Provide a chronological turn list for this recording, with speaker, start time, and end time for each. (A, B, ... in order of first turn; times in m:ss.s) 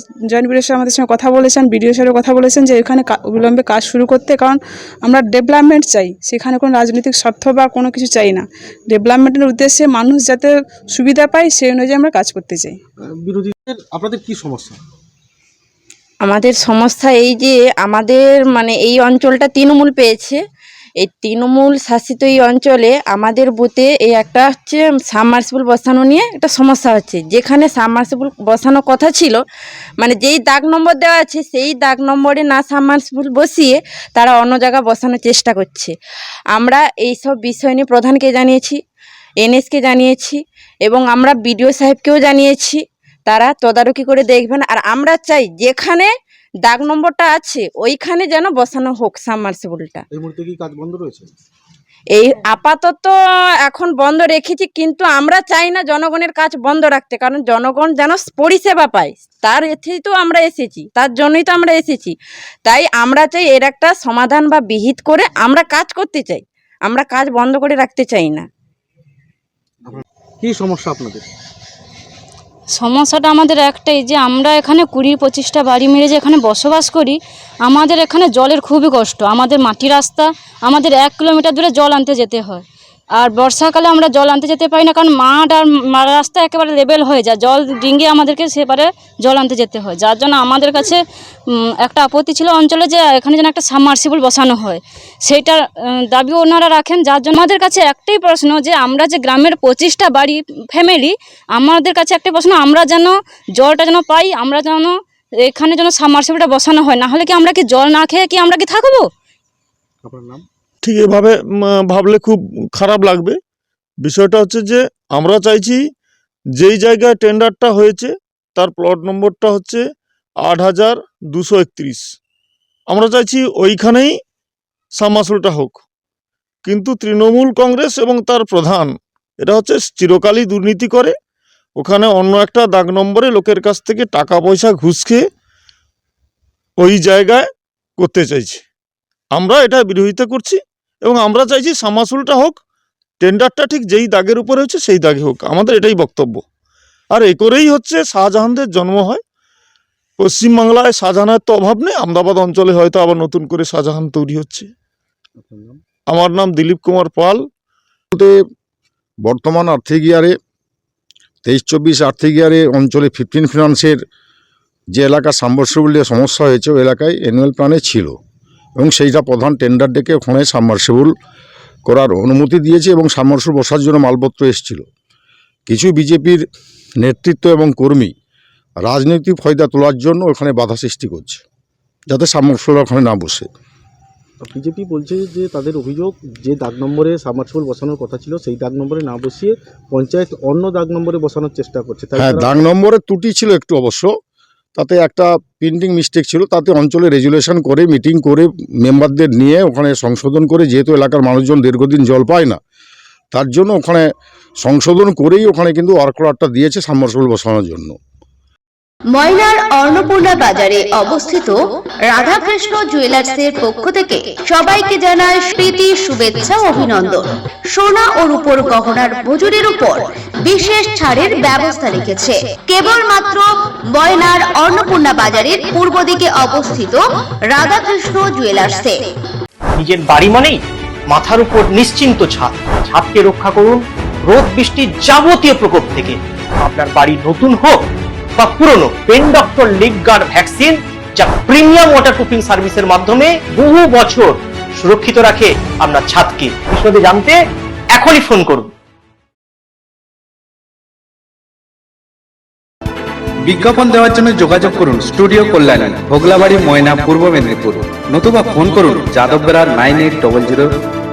0:00.3-0:12.8 A
0:13.1-0:14.8 B
0:16.3-0:20.4 C
0:21.0-0:29.4 C
0:30.0-0:35.9 C
0:36.6-0:38.8 C
0:39.4-0:46.1 C
0:46.7-0:50.0 C
0:50.1-0:51.3 B
0:52.2-0:53.1 C
0:53.7-1:02.1 C
1:02.7-1:08.4 C
1:09.9-1:11.3 B
1:12.8-1:22.6 D
1:23.2-1:31.0 D
1:31.8-1:49.1 D
1:50.0-1:50.4 B
1:50.8-1:53.4 E
1:54.0-1:55.8 E
1:56.6-1:59.8 E
2:00.4-2:02.0 E
2:02.9-2:04.2 E
2:05.0-2:05.8 E
2:06.6-2:11.1 E
2:11.8-2:15.2 E
2:16.8-2:18.6 E
2:19.3-2:22.6 E
2:23.2-2:26.4 E
2:27.1-2:29.2 E
2:30.2-2:34.7 E
2:35.4-2:35.8 B
2:36.1-2:37.4 E
2:38.1-2:38.4 F
2:39.2-2:40.4 F
2:41.5-2:44.0 F
2:45.0-2:48.2 F
2:48.8-2:51.1 F
2:51.9-2:54.8 F
2:55.7-2:56.4 F
2:57.0-2:58.1 F
2:58.8-3:01.4 F
3:02.1-3:03.5 F
3:04.4-3:12.6 B
3:12.2-3:14.1 F
3:14.8-3:22.6 F
3:23.3-3:24.1 F
3:24.6-3:28.0 F
3:29.1-3:49.1 G
3:49.8-3:50.6 H
3:51.1-3:57.8 H
3:58.4-4:07.4 H
4:08.0-4:08.7 H
4:13.4-4:20.8 I